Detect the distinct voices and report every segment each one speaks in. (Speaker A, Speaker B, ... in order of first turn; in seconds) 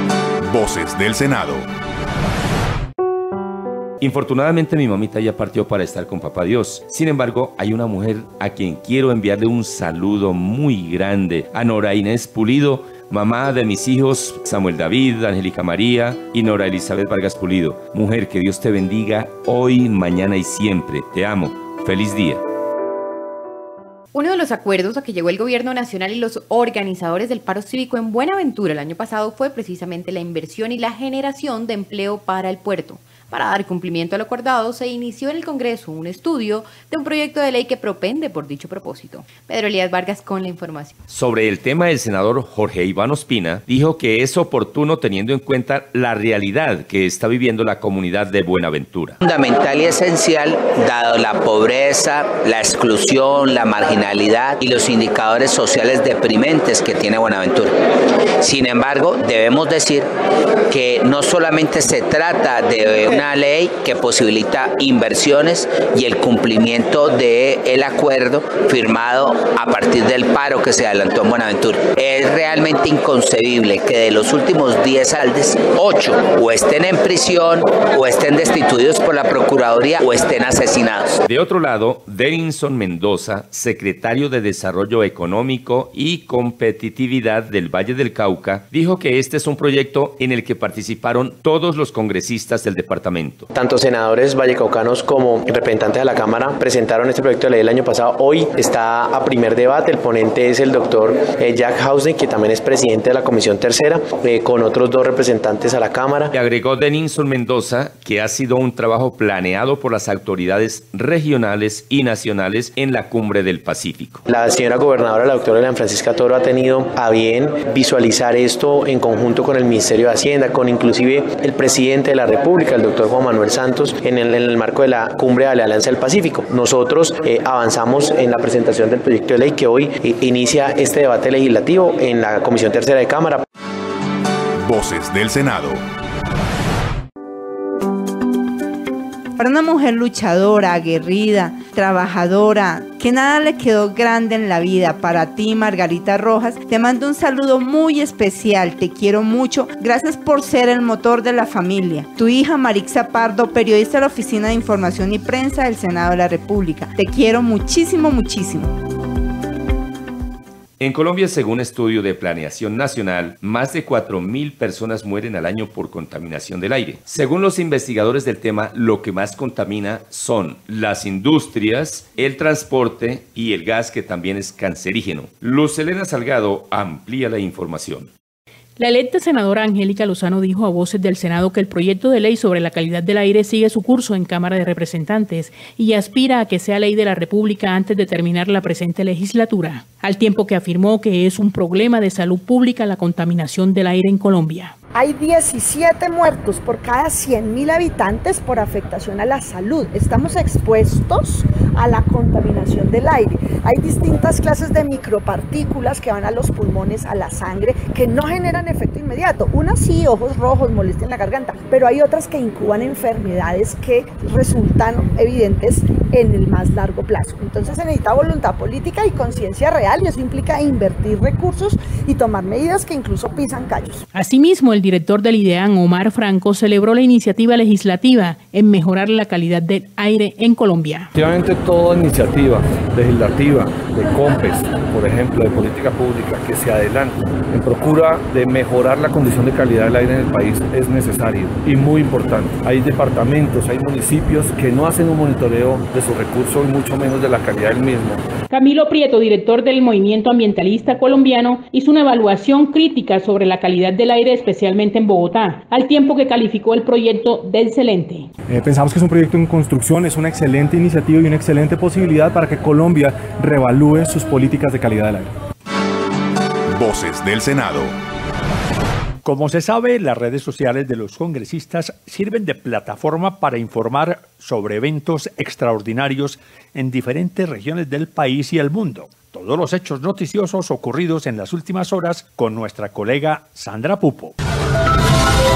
Speaker A: 0.5-1.7, 134.6-135.8, 266.7-267.9
Speaker B: 4.0-22.4, 41.1-49.2, 81.3-93.5, 106.3-114.3, 160.8-178.1
Speaker C: 24.1-40.9
Speaker D: 49.2-57.8, 58.4-60.1, 60.7-81.2
Speaker E: 93.5-106.3, 114.3-133.4
Speaker F: 139.4-158.7
Speaker G: 178.8-194.8, 224.1-231.1, 248.5-258.3
Speaker H: 194.9-224.0
Speaker I: 231.2-248.2
Speaker J: 258.5-265.3
Speaker K: 269.2-284.4